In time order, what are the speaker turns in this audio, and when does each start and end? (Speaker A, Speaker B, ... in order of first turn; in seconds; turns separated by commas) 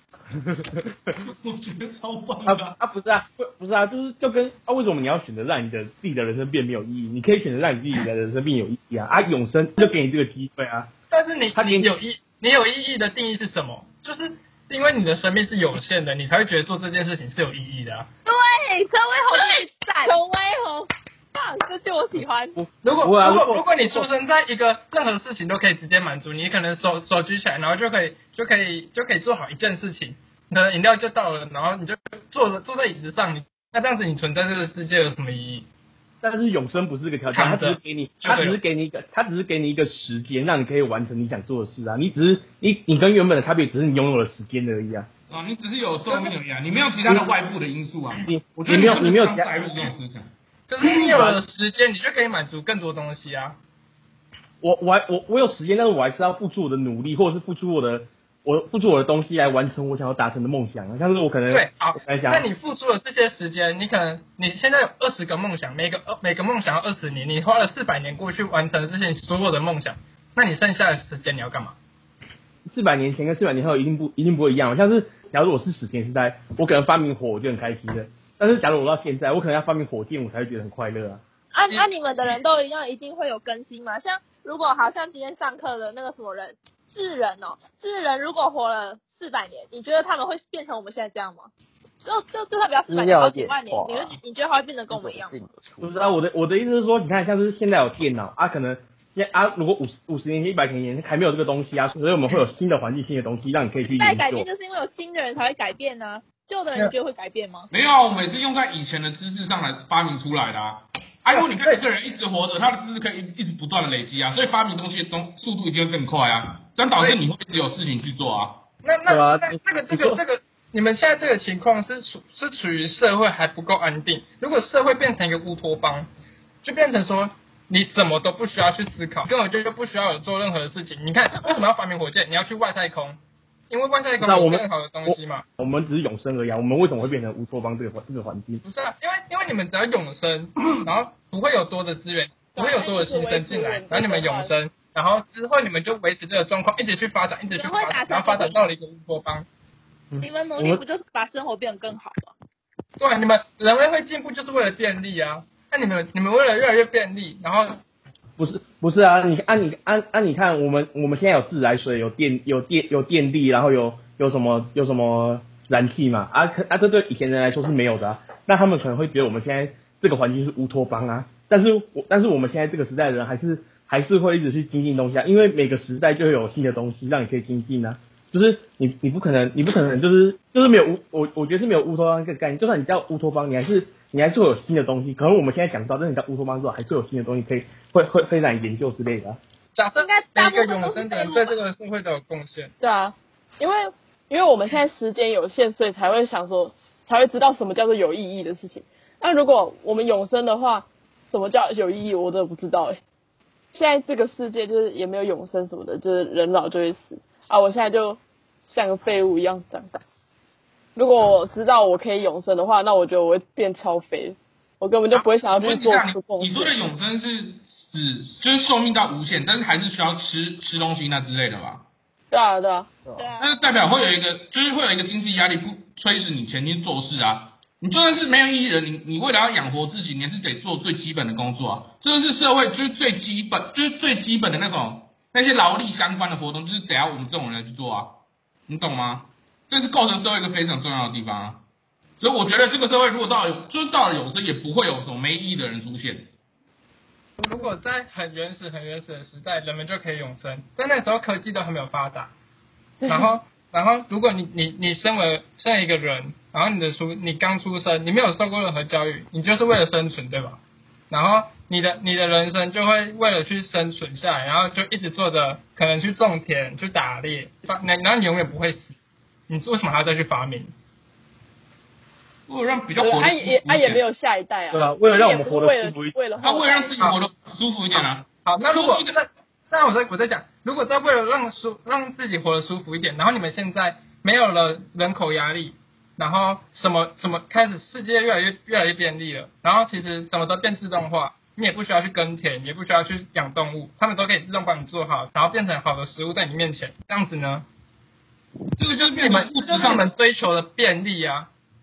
Speaker A: 0.5-0.8, Speaker B: 1.2-2.7, Speaker A: 2.4-10.9, Speaker C: 11.1-18.1, Speaker A: 11.5-11.9, Speaker D: 18.2-22.6, Speaker A: 22.6-24.1, Speaker C: 22.8-35.7, Speaker A: 36.2-45.1, Speaker C: 37.3-38.6, Speaker B: 45.3-50.3, Speaker C: 46.1-46.3, Speaker A: 47.0-47.3, Speaker A: 48.2-49.7, Speaker C: 50.7-53.6, Speaker A: 50.8-51.4, Speaker A: 54.6-62.5, Speaker C: 61.5-71.8, Speaker A: 72.7-81.2, Speaker D: 81.5-91.5, Speaker D: 92.0-95.3, Speaker E: 92.9-94.2, Speaker E: 94.9-95.9, Speaker A: 95.8-104.5, Speaker D: 104.0-107.7, Speaker B: 107.7-118.6, Speaker C: 111.3-111.7, Speaker C: 118.8-126.1, Speaker A: 119.1-120.2, Speaker C: 126.6-133.2, Speaker C: 133.7-135.4, Speaker A: 134.2-138.6, Speaker C: 138.6-149.4, Speaker F: 142.5-144.6, Speaker D: 147.5-148.6, Speaker A: 150.1-150.8, Speaker D: 150.2-152.3, Speaker C: 153.0-157.8, Speaker A: 158.4-189.4, Speaker C: 189.7-192.7, Speaker D: 190.0-191.6, Speaker F: 192.8-203.0, Speaker F: 203.7-210.0, Speaker F: 210.9-216.8, Speaker B: 215.1-221.8, Speaker F: 222.3-222.9, Speaker E: 223.1-223.3, Speaker D: 223.2-223.5, Speaker B: 223.4-241.6, Speaker B: 242.2-246.3, Speaker C: 247.4-252.3, Speaker C: 253.1-268.9, Speaker C: 269.5-270.7, Speaker B: 272.5-274.0, Speaker F: 273.0-277.0, Speaker A: 274.7-276.1, Speaker B: 276.4-279.1, Speaker C: 277.9-297.6, Speaker B: 298.8-300.1, Speaker C: 298.9-301.5